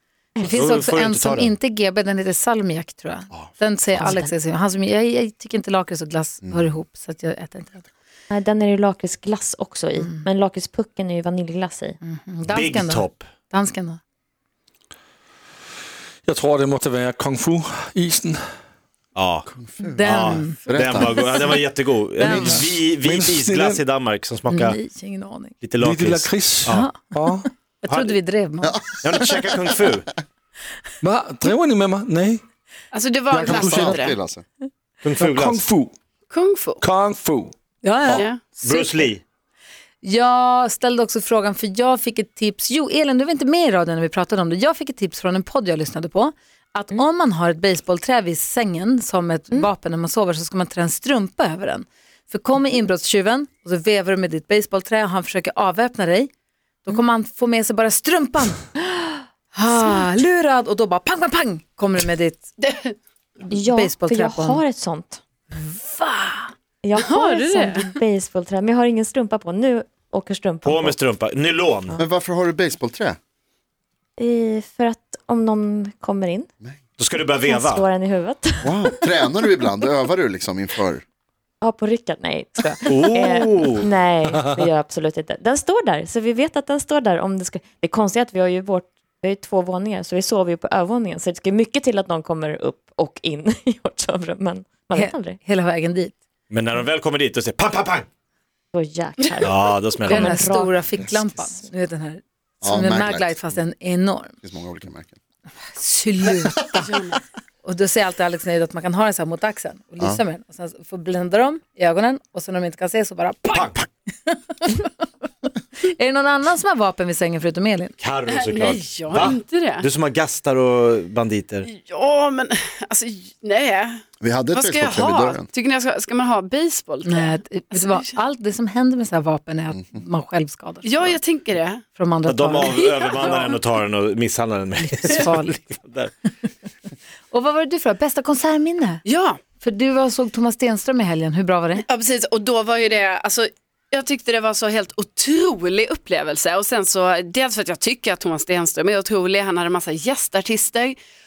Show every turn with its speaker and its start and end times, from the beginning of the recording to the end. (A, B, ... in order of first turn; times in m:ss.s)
0:00.4-0:07.8 A
0:00.5-0:01.5 B
0:04.0-0:04.3 C
0:08.3-0:12.0 C
0:10.0-0:10.2 A
0:12.0-0:14.0 A
0:12.5-0:13.3 B
0:16.2-0:18.4 D
0:19.2-0:19.5 B
0:19.5-0:21.6 E
0:19.8-0:20.6 A
0:20.0-0:24.8 B
0:22.2-0:22.8 A
0:22.2-0:23.8 D
0:24.5-0:25.5 A
0:25.6-0:26.9 B
0:25.8-0:27.5 D
0:26.7-0:26.9 A
0:27.8-0:28.8 A
0:27.9-0:28.1 B
0:28.6-0:29.5 E
0:29.0-0:30.1 B
0:31.0-0:32.4 D
0:32.9-0:34.2 F
0:33.3-0:34.4 E
0:33.5-0:34.1 D
0:35.0-0:35.6 B
0:35.2-0:35.9 D
0:36.3-0:36.8 F
0:36.8-0:38.2 D
0:37.8-0:39.1 A
0:38.1-0:38.5 F
0:38.6-0:39.2 B
0:40.0-0:56.3 A
0:56.8-0:58.7 A
0:59.5-1:02.5 A
1:02.6-1:02.9 F
1:03.5-1:05.2 C
1:03.7-1:04.6 A
1:05.6-1:06.5 A
1:06.8-1:11.0 C
1:07.0-1:07.9 F
1:10.6-1:12.0 B
1:12.0-1:13.2 E
1:14.2-1:16.5 C
1:17.0-1:17.8 B
1:17.4-1:19.1 C
1:18.6-1:21.0 E
1:21.6-1:35.4 C
1:22.8-1:23.9 B
1:34.9-1:36.2 A
1:36.5-1:38.1 B
1:38.7-1:41.6 C
1:39.4-1:40.3 B
1:40.1-1:44.3 A
1:42.6-1:43.6 E
1:44.4-1:45.2 E
1:45.7-1:46.8 A
1:46.8-1:47.2 F
1:47.6-1:53.7 A
1:53.5-1:53.8 B
1:54.3-1:54.9 A
1:55.8-1:57.9 A
1:58.0-2:01.7 B
1:58.3-1:59.9 F
2:01.7-2:04.0 F
2:04.2-2:05.4 E
2:04.5-2:08.2 F
2:07.0-2:11.2 A
2:10.8-2:11.8 F
2:11.9-2:13.3 A
2:12.2-2:16.1 B
2:12.7-2:13.5 F
2:14.9-2:15.6 A
2:17.3-2:19.0 A
2:19.0-2:19.4 F
2:19.6-2:21.8 A
2:21.8-2:31.0 F